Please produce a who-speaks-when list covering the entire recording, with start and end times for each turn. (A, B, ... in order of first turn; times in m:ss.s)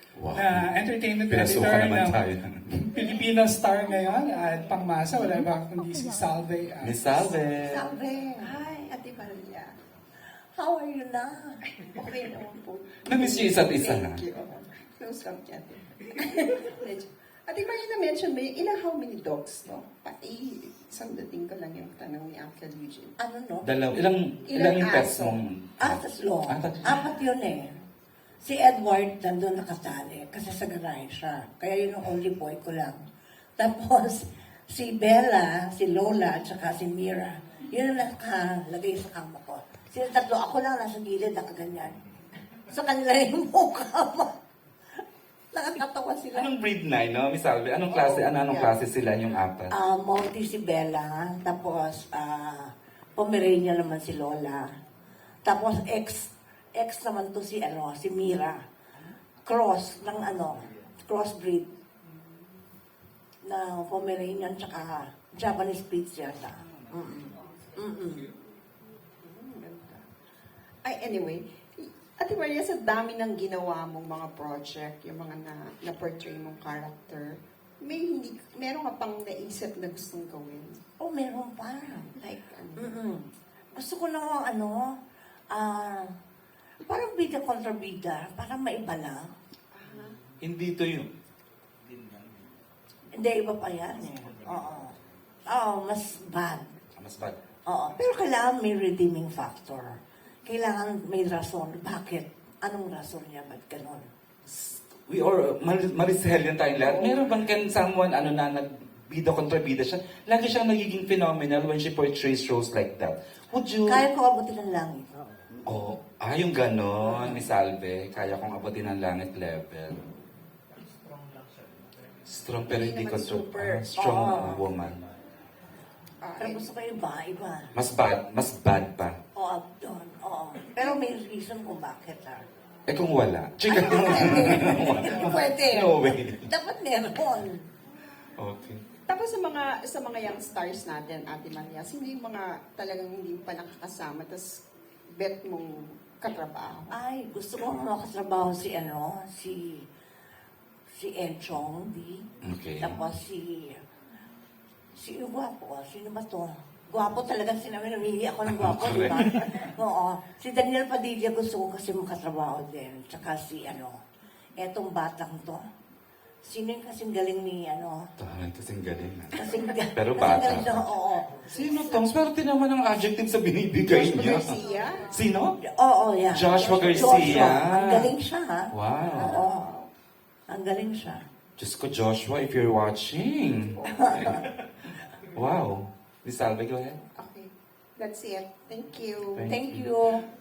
0:00.1-0:00.7 A
0:00.3-0:07.0 B
0:01.2-0:02.8 A
0:06.8-0:07.8 A
0:07.0-0:08.5 C
0:08.4-0:09.8 D
0:10.6-0:11.6 C
0:11.8-0:23.2 D
0:13.0-0:14.2 A
0:23.2-0:23.6 C
0:23.6-0:27.1 A
0:24.5-0:25.4 D
0:25.8-0:27.8 C
0:28.4-0:33.0 C
0:33.6-0:41.9 C
0:42.7-0:44.3 C
0:45.5-0:46.5 C
0:46.3-0:49.7 A
0:47.9-0:48.7 D
0:49.7-0:54.6 C
0:55.4-0:58.6 C
0:59.4-1:01.7 C
1:03.4-1:08.3 C
1:09.2-1:10.0 D
1:10.8-1:20.8 D
1:21.0-1:22.1 C
1:22.1-1:23.0 D
1:22.8-1:23.2 C
1:23.7-1:24.8 C
1:25.5-1:26.1 C
1:26.8-1:29.3 C
1:29.7-1:30.2 D
1:30.4-1:31.1 A
1:33.1-1:36.7 C
1:37.0-1:37.4 A
1:37.7-1:39.9 C
1:40.4-1:44.0 C
1:44.4-1:54.0 A
1:46.8-1:47.2 D
1:53.8-1:55.0 C
1:55.6-2:00.0 A
1:57.2-1:57.5 C
2:02.2-2:05.0 A
2:02.7-2:03.9 D
2:04.0-2:04.7 C
2:06.2-2:06.7 D
2:06.4-2:07.7 C
2:07.7-2:09.2 A
2:09.3-2:12.4 C
2:12.9-2:16.5 A
2:13.7-2:17.6 C
2:14.7-2:15.4 D
2:18.4-2:18.8 A
2:19.1-2:26.9 D
2:26.9-2:29.8 C
2:30.9-2:32.2 C
2:32.4-2:33.0 A
2:32.8-2:33.8 C
2:35.0-2:44.0 C
2:38.5-2:39.5 A
2:44.6-2:45.6 C
2:46.4-2:48.0 C
2:48.2-2:49.4 A
2:49.3-2:51.5 C
2:49.9-2:50.9 A
2:51.4-2:55.6 A
2:53.8-2:55.2 D
2:55.6-2:59.7 C
2:56.3-2:58.1 A
2:56.5-2:57.5 D
2:58.7-2:59.4 A
2:59.2-2:59.9 D
3:00.5-3:01.2 C
3:01.6-3:07.0 A
3:03.7-3:04.3 D
3:03.9-3:04.5 C
3:07.2-3:09.5 D
3:09.3-3:09.8 A
3:09.5-3:10.2 C